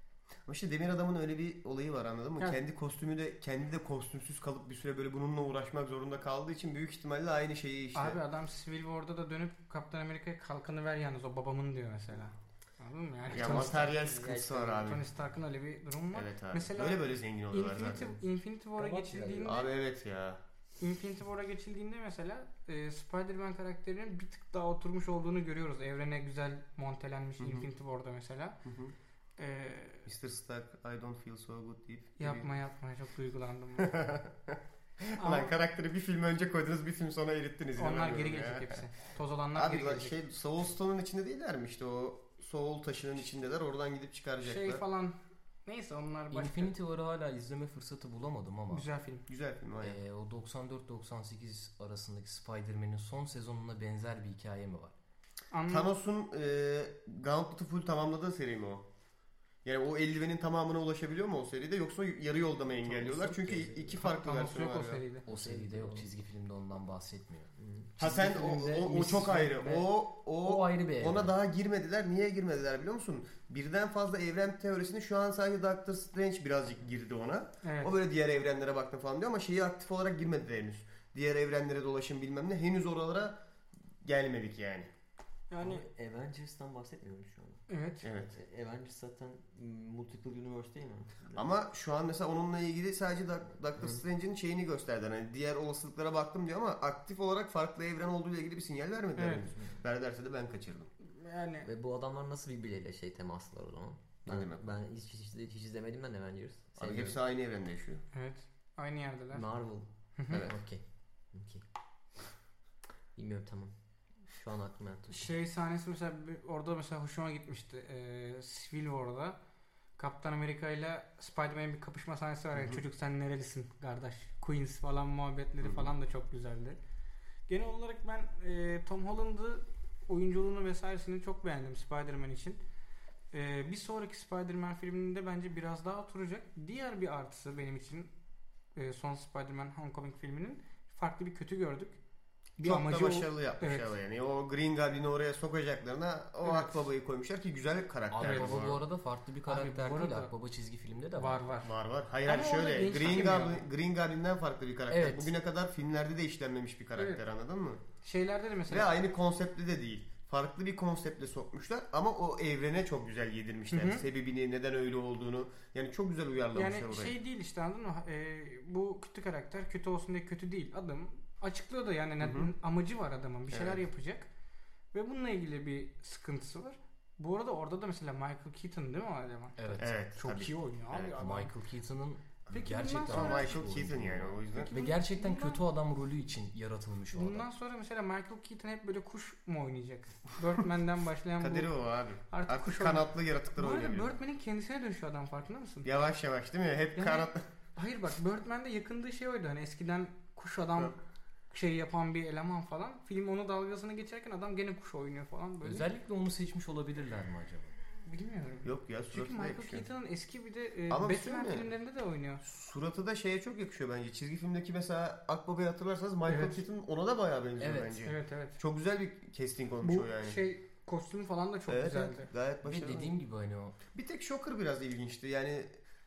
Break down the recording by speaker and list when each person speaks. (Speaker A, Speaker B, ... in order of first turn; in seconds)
Speaker A: 0.5-8.2, 13.3-15.1, 16.1-18.1, 19.4-20.4, 27.4-27.7, 28.6-28.9, 30.1-32.5, 33.8-38.8, 39.5-44.8, 49.3-50.0, 55.7-58.8, 59.6-65.0, 68.0-83.4, 84.0-84.9, 88.0-88.3, 91.3-100.9, 104.2-104.7, 106.8-108.0, 110.3-110.5, 122.5-122.8, 125.6-125.9, 142.6-148.8, 151.6-157.8, 158.7-167.1, 172.2-172.5, 173.5-173.8, 179.8-181.2, 183.1-184.7, 191.4-194.1, 195.8-197.4, 208.6-209.8, 210.9-211.7, 212.4-220.4, 221.7-223.1, 223.9-225.7
Speaker B: 7.9-13.9, 14.8-19.7, 20.8-28.6, 29.4-30.1, 32.2-33.9, 35.2-35.5, 37.8-40.1, 44.4-46.7, 48.7-49.2, 55.5-55.9, 64.0-65.2, 77.6-78.0, 85.5-85.8, 87.7-88.0, 99.2-99.4, 101.2-101.7, 108.1-109.5, 110.2-110.4, 115.1-119.3, 120.0-126.8, 127.5-132.6, 133.3-138.1, 138.7-142.0, 142.6-143.9, 146.4-146.8, 148.2-148.6, 149.4-150.3, 151.1-151.7, 152.2-153.7, 156.9-157.2, 158.0-158.9, 163.7-164.0, 166.5-174.3, 174.9-181.5, 182.5-183.6, 184.5-185.6, 187.1-195.9, 196.9-200.9, 201.5-205.9, 208.1-212.4, 216.2-216.6, 218.0-218.6, 219.8-222.3
Speaker C: 13.3-14.9, 18.8-19.7, 63.0-63.9, 65.3-66.1, 67.6-67.9, 85.6-87.6, 88.3-91.5, 101.6-107.2, 109.3-111.6, 113.1-113.7, 114.2-115.2
Speaker D: 46.3-48.9, 49.8-54.9, 65.2-69.9, 70.4-71.3, 148.1-151.4, 154.9-155.3, 179.6-180.0, 181.2-187.5, 205.6-207.7, 217.6-218.0, 222.6-223.8